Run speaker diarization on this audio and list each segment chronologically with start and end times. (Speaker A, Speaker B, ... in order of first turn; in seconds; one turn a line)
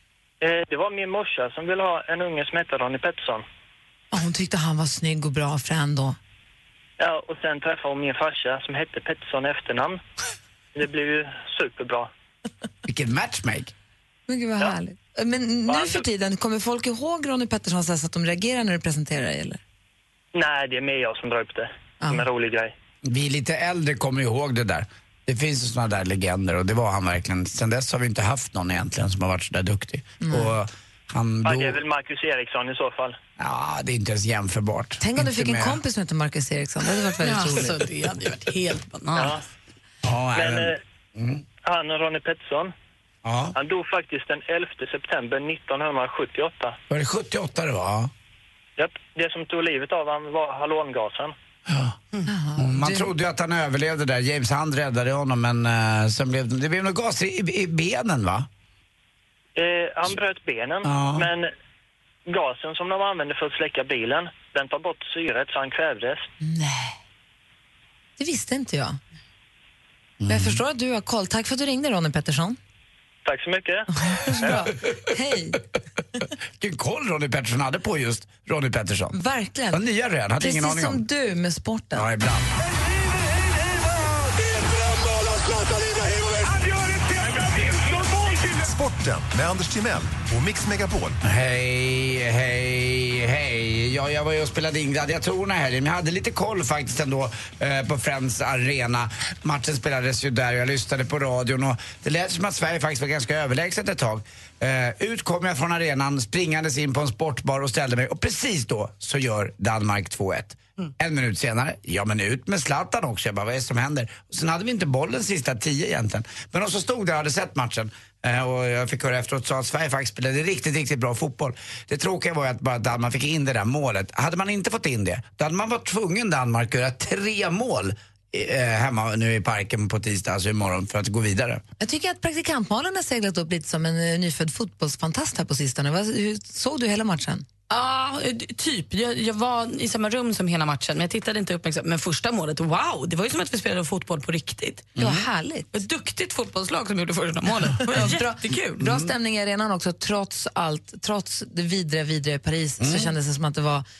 Speaker A: 0.4-3.4
Speaker B: 4.1-6.2
Speaker A: 7.0-10.0
Speaker A: 10.7-12.1
Speaker C: 12.8-13.7
Speaker B: 14.3-19.6
Speaker A: 15.7-16.0
Speaker A: 20.3-22.7
Speaker C: 23.0-31.8
Speaker B: 30.2-30.5
Speaker A: 31.4-33.2
Speaker C: 33.4-35.8
Speaker B: 35.0-37.8
Speaker D: 37.2-39.3
Speaker A: 39.1-39.4
Speaker C: 40.0-41.4
Speaker A: 40.3-40.8
Speaker A: 41.6-42.7
Speaker C: 43.2-43.5
Speaker A: 43.5-46.8
Speaker C: 46.9-48.1
Speaker A: 48.8-51.3
Speaker C: 51.7-52.0
Speaker B: 52.2-53.1
Speaker C: 52.6-58.5
Speaker A: 59.5-61.5
Speaker C: 60.9-61.3
Speaker A: 62.3-66.3
Speaker B: 66.4-67.0
Speaker B: 68.2-69.0
Speaker C: 70.2-70.6
Speaker B: 70.3-72.6
Speaker A: 73.2-73.9
Speaker B: 74.0-75.6
Speaker C: 76.6-79.2
Speaker B: 79.1-79.8
Speaker C: 79.7-81.0
Speaker B: 80.4-82.0
Speaker C: 81.9-82.5
Speaker E: 83.7-91.2
Speaker C: 91.2-131.6
Speaker B: 131.8-137.4
Speaker D: 137.7-144.9
Speaker C: 144.9-145.2
Speaker B: 145.0-145.7
Speaker D: 145.7-148.8
Speaker B: 147.9-153.8
Speaker C: 152.8-153.1